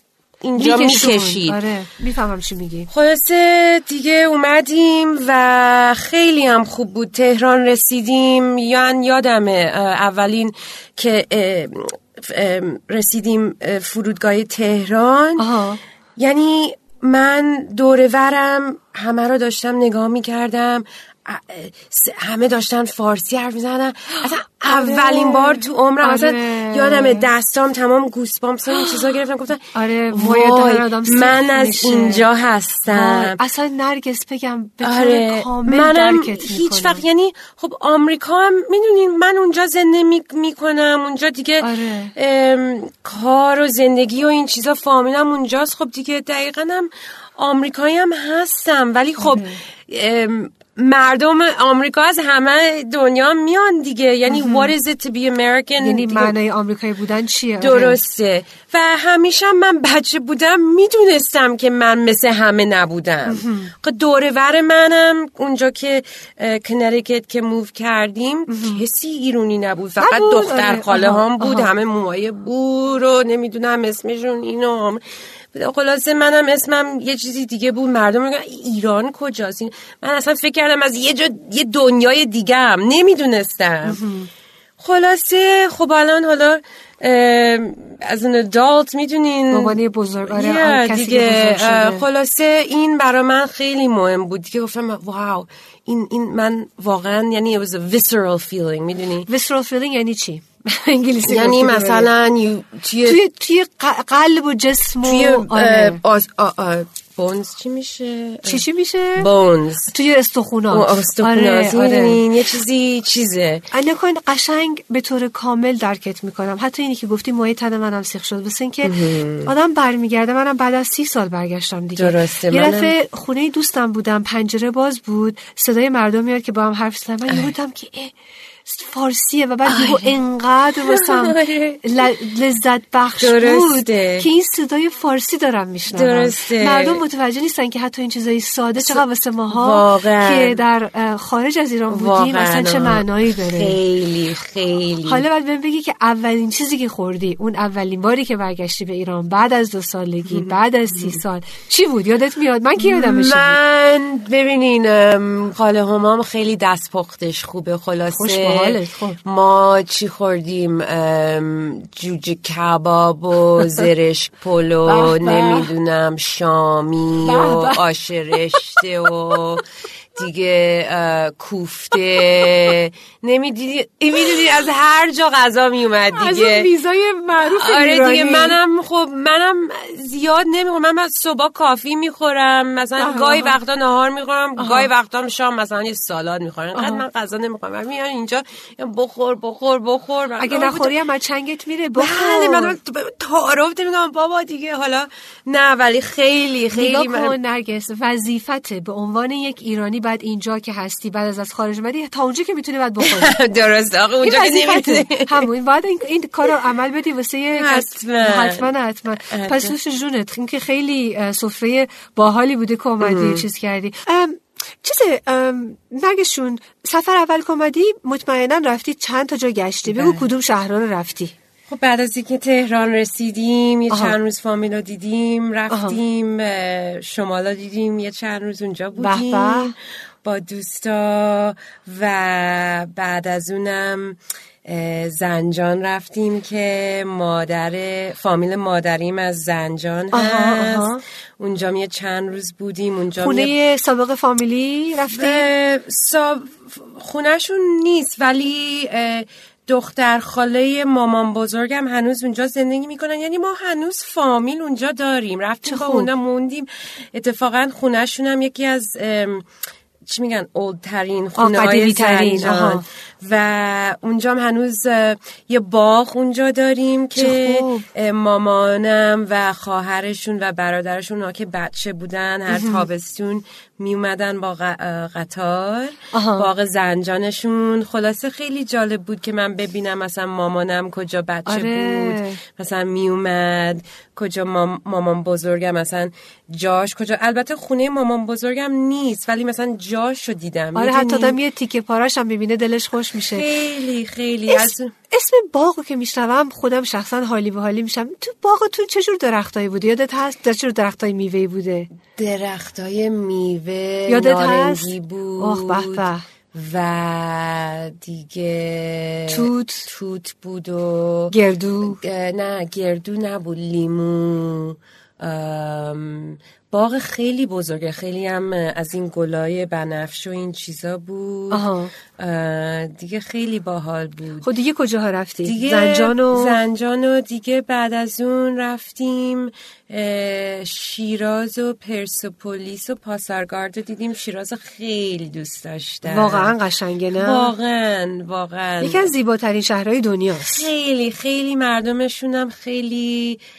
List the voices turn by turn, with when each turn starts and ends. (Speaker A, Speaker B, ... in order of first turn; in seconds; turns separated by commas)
Speaker A: 0.4-1.6, Speaker B: 0.6-2.9, Speaker A: 2.9-15.5, Speaker B: 15.4-15.8, Speaker A: 16.2-33.4, Speaker B: 24.2-27.3, Speaker B: 29.7-32.2, Speaker B: 32.9-37.0, Speaker A: 34.8-56.4, Speaker B: 41.6-42.1, Speaker B: 49.2-49.6, Speaker B: 54.3-54.7, Speaker B: 55.8-58.0, Speaker A: 57.6-84.0, Speaker B: 63.3-63.7, Speaker B: 68.5-68.8, Speaker B: 70.0-71.7, Speaker B: 83.8-84.3, Speaker A: 84.8-99.3, Speaker B: 89.5-92.0, Speaker B: 99.3-102.1, Speaker A: 101.2-103.2, Speaker B: 103.0-106.0, Speaker A: 105.0-108.7, Speaker B: 108.5-109.3, Speaker A: 109.2-109.9, Speaker B: 109.9-112.2, Speaker A: 110.7-113.7, Speaker B: 113.7-128.1, Speaker A: 118.8-119.5, Speaker A: 122.0-122.9, Speaker A: 127.3-127.5, Speaker B: 128.7-143.8, Speaker A: 129.7-130.2, Speaker A: 130.8-132.1, Speaker A: 133.2-134.3, Speaker A: 135.9-137.0, Speaker A: 138.8-140.6, Speaker A: 141.9-145.2, Speaker B: 145.1-153.6, Speaker A: 150.3-151.2, Speaker A: 152.8-169.6, Speaker B: 158.1-159.2, Speaker B: 164.9-165.7, Speaker B: 167.2-167.8, Speaker B: 168.5-168.8, Speaker A: 170.2-176.7, Speaker B: 176.2-178.6, Speaker A: 177.4-191.0, Speaker B: 183.0-183.5, Speaker B: 184.6-184.9, Speaker B: 186.8-187.0, Speaker B: 190.4-192.7, Speaker A: 192.0-197.3, Speaker B: 196.7-203.4, Speaker A: 203.0-205.5, Speaker B: 204.2-221.3, Speaker A: 207.6-208.7, Speaker A: 209.3-209.7, Speaker A: 213.0-213.4, Speaker A: 219.9-220.3, Speaker A: 221.7-243.5, Speaker B: 223.9-224.2, Speaker B: 225.7-226.0, Speaker B: 229.0-229.7, Speaker B: 240.1-241.0, Speaker B: 243.2-245.5, Speaker A: 245.1-259.5, Speaker B: 255.7-256.1, Speaker A: 260.1-291.4, Speaker B: 261.4-262.8, Speaker B: 267.1-267.9, Speaker B: 272.5-272.9, Speaker B: 276.1-276.5, Speaker B: 281.5-282.4, Speaker B: 290.8-293.5, Speaker A: 293.2-294.9, Speaker B: 294.5-301.9, Speaker A: 302.2-311.3, Speaker B: 304.1-306.2, Speaker B: 309.3-309.9, Speaker B: 311.3-312.0, Speaker A: 311.9-324.5, Speaker B: 321.5-321.9, Speaker B: 324.4-326.6, Speaker A: 325.4-336.6, Speaker B: 336.1-337.5, Speaker A: 337.1-339.1, Speaker B: 338.8-340.7, Speaker A: 340.4-343.4